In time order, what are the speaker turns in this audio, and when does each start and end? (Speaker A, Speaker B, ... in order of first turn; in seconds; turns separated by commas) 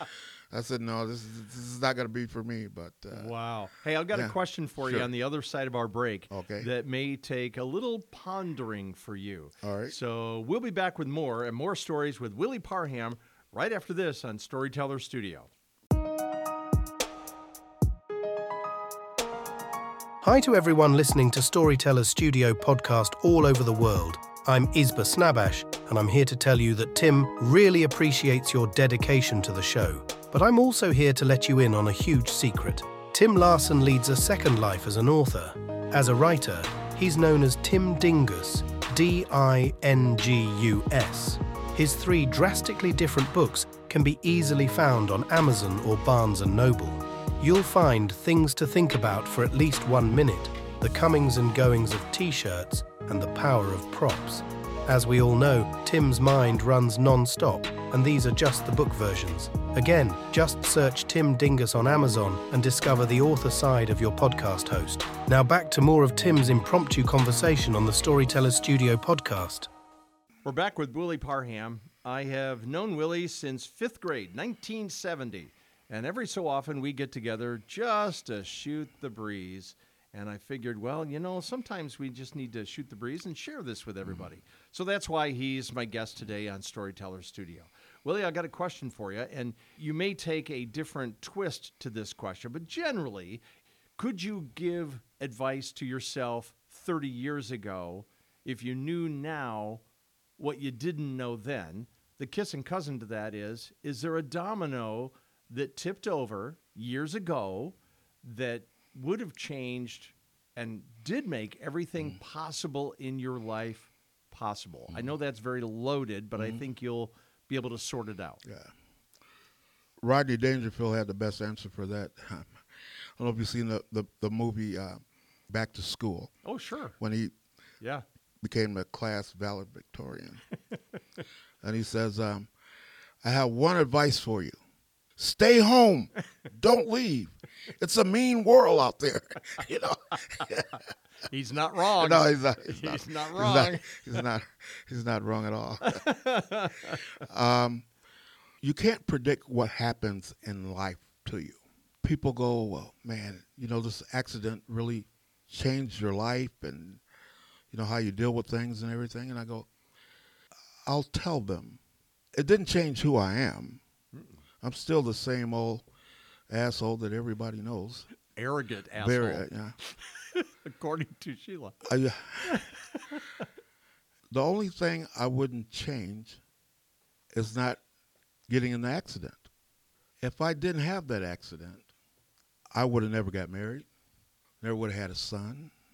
Speaker A: 0.5-3.3, Speaker B: 3.1-15.5, Speaker A: 4.1-5.1, Speaker A: 6.3-6.7, Speaker A: 9.6-9.9, Speaker C: 20.2-69.7, Speaker B: 70.4-93.4, Speaker B: 94.0-99.8, Speaker B: 100.4-118.4, Speaker A: 116.4-116.6, Speaker A: 118.4-118.7, Speaker A: 120.0-122.6, Speaker A: 123.2-126.3, Speaker B: 126.4-127.0, Speaker A: 127.0-127.3, Speaker A: 128.4-130.4, Speaker A: 131.6-132.5, Speaker A: 133.2-134.5, Speaker A: 135.2-140.8, Speaker B: 141.3-144.0, Speaker A: 142.0-146.0, Speaker B: 145.8-147.1, Speaker A: 147.2-147.8, Speaker A: 148.6-157.0, Speaker A: 157.7-159.7, Speaker A: 160.8-161.8, Speaker A: 162.3-163.8, Speaker B: 164.1-164.4, Speaker A: 164.6-165.8, Speaker A: 166.5-168.1, Speaker B: 168.3-171.8, Speaker A: 169.0-169.7, Speaker A: 171.8-172.6, Speaker B: 172.4-173.4, Speaker A: 174.3-176.4, Speaker A: 177.3-177.8, Speaker A: 178.5-179.4, Speaker A: 180.2-181.9, Speaker A: 182.7-183.9, Speaker A: 184.6-185.7